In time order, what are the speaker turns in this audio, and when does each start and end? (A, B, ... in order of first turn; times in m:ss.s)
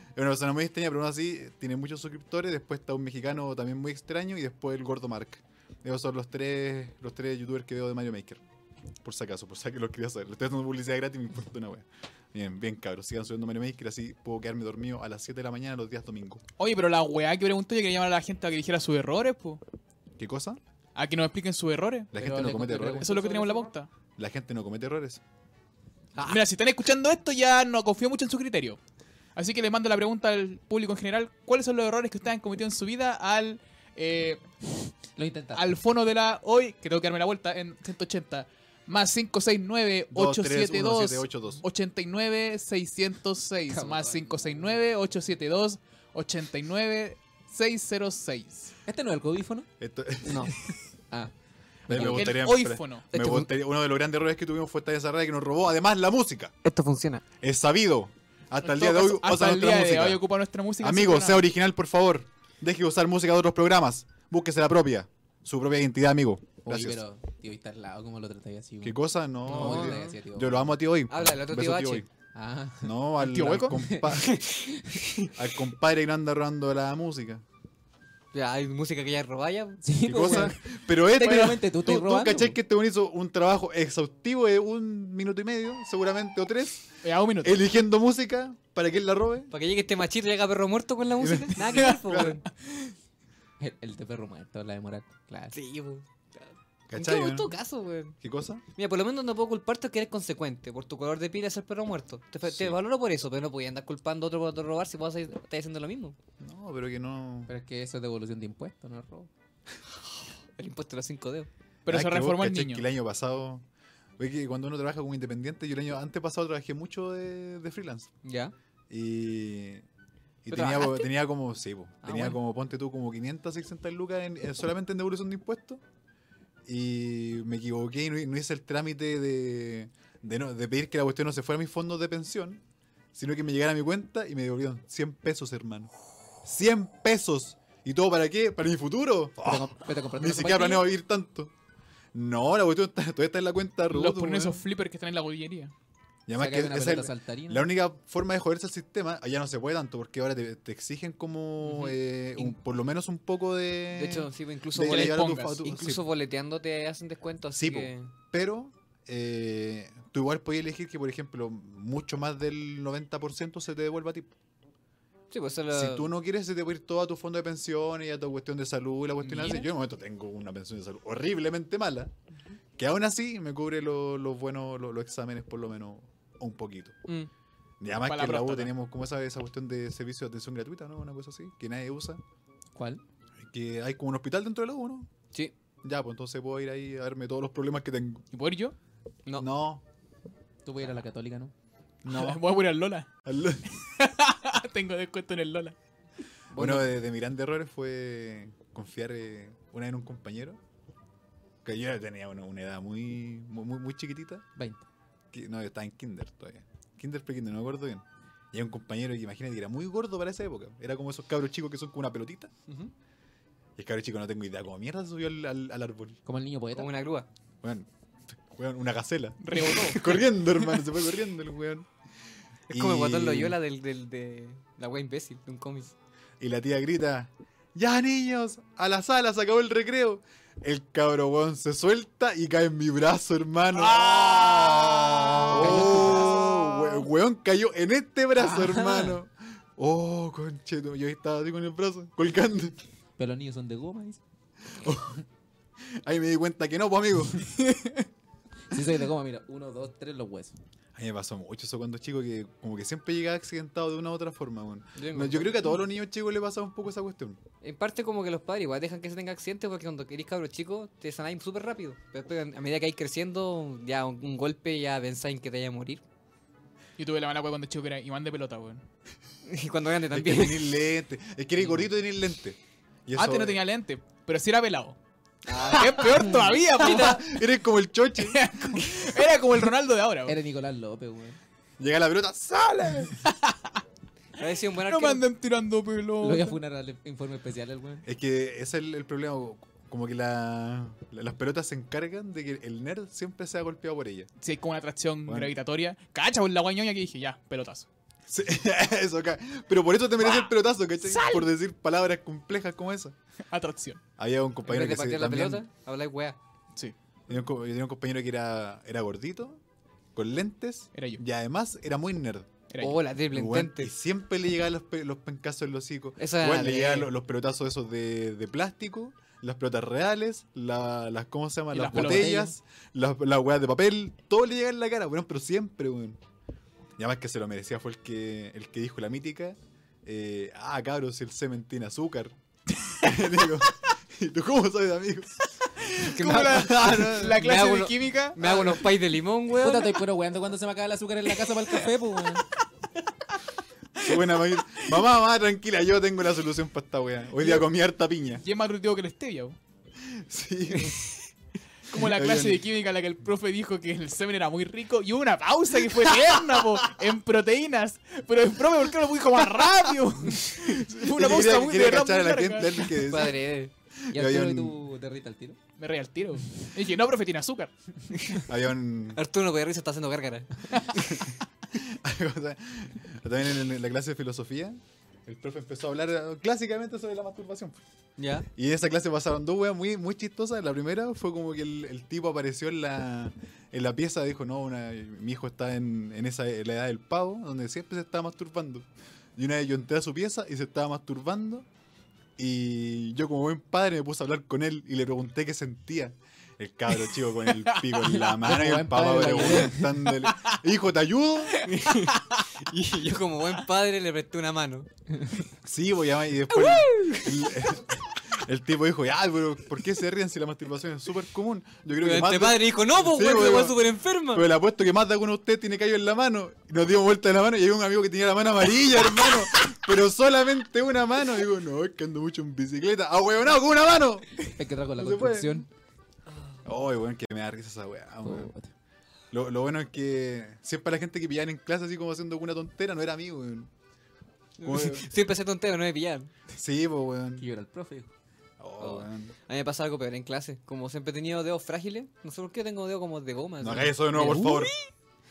0:00.2-0:08.4 A
0:09.0-0:16.4 A
0:16.6-0:19.6 B
0:20.2-0:20.6 A
0:21.0-0:22.1 B
0:22.1-0:23.1 A
0:22.2-0:23.7 C
0:23.0-0:23.9 B
0:24.2-0:25.2 A
0:26.2-0:26.4 D
0:26.2-0:28.8 B
0:29.4-0:34.4 B
0:35.2-0:35.8 C
0:35.5-0:48.7 B
0:40.1-0:41.6 A
0:43.7-0:44.8 C
0:48.8-0:49.7 C
0:49.8-0:50.7 A
0:50.2-0:50.5 D
0:51.9-0:52.4 C
0:51.9-0:56.5 A
0:51.9-0:53.4 B
0:56.6-0:57.2 D
0:57.4-1:00.2 A
0:58.6-1:01.5 B
1:00.8-1:07.0 A
1:06.6-1:10.7 C
1:08.8-1:12.1 A
1:09.5-1:10.2 D
1:11.1-1:12.0 D
1:12.3-1:13.0 C
1:12.8-1:14.4 A
1:13.2-1:13.8 B
1:13.8-1:15.0 C
1:14.2-1:15.3 D
1:15.3-1:17.4 A
1:18.3-1:20.4 D
1:19.8-1:22.6 C
1:20.0-1:26.9 A
1:21.2-1:21.6 B
1:27.0-1:27.6 B
1:27.4-1:29.5 A
1:29.5-1:32.4 D
1:31.2-1:32.4 A
1:31.7-1:32.3 B
1:33.6-1:35.6 C
1:35.5-1:38.2 D
1:36.9-1:37.6 A
1:38.2-1:38.6 A
1:38.8-1:46.2 D
1:42.5-1:42.8 A
1:46.4-1:47.5 A
1:47.5-1:49.3 C
1:50.6-1:51.5 D
1:51.9-1:52.8 B
1:51.9-1:53.6 A
1:54.2-1:58.1 A
1:58.2-1:58.5 D
1:58.9-1:59.9 A
2:00.4-2:05.8 A
2:00.5-2:01.1 D
2:02.0-2:02.4 D
2:06.7-2:12.6 A
2:13.1-2:15.9 A
2:16.4-2:21.5 A
2:19.4-2:20.9 C
2:22.1-2:24.6 A
2:23.9-2:25.7 B
2:26.3-2:36.1 A
2:26.3-2:27.7 C
2:31.7-2:32.5 D
2:33.9-2:38.1 D
2:34.8-2:35.6 B
2:37.5-2:44.3 A
2:45.3-2:46.1 D
2:45.7-2:52.1 A
2:49.2-2:49.7 B
2:52.8-2:57.0 A
2:57.8-3:02.2 A
2:58.0-2:58.7 B
3:02.8-3:03.0 C
3:03.4-3:05.1 A
3:05.8-3:08.2 A
3:08.3-3:08.8 B
3:09.4-3:09.8 A
3:10.6-3:11.5 C
3:12.0-3:12.4 A
3:12.1-3:13.1 B
3:13.2-3:13.6 A
3:13.8-3:15.8 B
3:16.5-3:16.9 D
3:16.5-3:20.6 A
3:21.6-3:24.4 A
3:24.6-3:24.8 C
3:25.3-3:32.5 A
3:33.8-3:36.2 A
3:36.3-3:36.9 C
3:36.8-3:37.3 D
3:37.6-3:41.9 A
3:39.4-3:40.2 B
3:42.7-3:43.6 A
3:42.7-3:45.9 D
3:46.4-4:02.8 A
3:53.8-3:56.6 B
3:55.5-3:56.5 C
3:58.4-3:59.2 C
4:03.2-4:04.2 C
4:04.8-4:05.2 A
4:05.8-4:07.5 A
4:07.6-4:08.1 B
4:08.7-4:10.6 C
4:11.0-4:17.4 A
4:15.0-4:15.7 D
4:17.6-4:26.0 D
4:27.0-4:28.8 B
4:29.4-4:30.8 D
4:30.1-4:33.6 A
4:33.1-4:35.0 B
4:35.4-4:37.2 D
4:35.6-4:37.3 B
4:36.0-4:39.0 A
4:38.2-4:40.4 B
4:40.3-4:41.4 C
4:41.8-4:43.2 A
4:43.3-4:43.6 B
4:44.4-4:45.2 D
4:44.8-4:46.6 B
4:46.2-4:48.0 C
4:48.0-4:54.3 A
4:54.4-4:57.9 B
4:55.3-4:55.6 A
4:58.3-5:03.2 A
5:01.0-5:01.5 B
5:03.5-5:04.0 B
5:04.2-5:05.6 A
5:04.6-5:06.4 D
5:07.3-5:09.6 A
5:10.2-5:12.5 A
5:10.9-5:11.2 B
5:12.7-5:13.0 B
5:12.8-5:13.9 D
5:13.3-5:26.2 A
5:16.2-5:17.1 D
5:21.7-5:22.4 B
5:21.9-5:22.6 C
5:27.0-5:32.4 A
5:32.9-5:37.4 A
5:36.0-5:40.0 D
5:36.1-5:38.8 B
5:39.5-5:42.4 C
5:44.0-5:48.4 A
5:47.4-5:47.7 B
5:48.4-5:49.6 B
5:50.0-5:51.3 A
5:51.9-5:52.6 A
5:51.9-6:02.9 B
6:00.6-6:04.8 A
6:03.0-6:03.7 D
6:04.1-6:05.6 C
6:05.8-6:07.7 B
6:08.4-6:09.2 A
6:09.1-6:11.2 D
6:11.1-6:17.8 A
6:18.2-6:18.5 D
6:18.5-6:31.7 A
6:32.4-6:41.6 A
6:37.6-6:38.3 B
6:38.3-6:39.9 C
6:41.6-6:44.9 D
6:41.6-6:42.4 B
6:45.6-7:05.7 A
6:46.5-6:47.6 D
6:52.0-6:54.5 D
7:04.6-7:05.7 C
7:06.6-7:08.5 A
7:08.2-7:08.7 C
7:09.3-7:13.7 A
7:14.6-7:16.3 D
7:14.6-7:15.1 A
7:16.5-7:17.5 A
7:17.4-7:18.1 C
7:18.6-7:19.3 A
7:18.8-7:24.4 D
7:23.6-7:24.7 A
7:24.1-7:24.7 B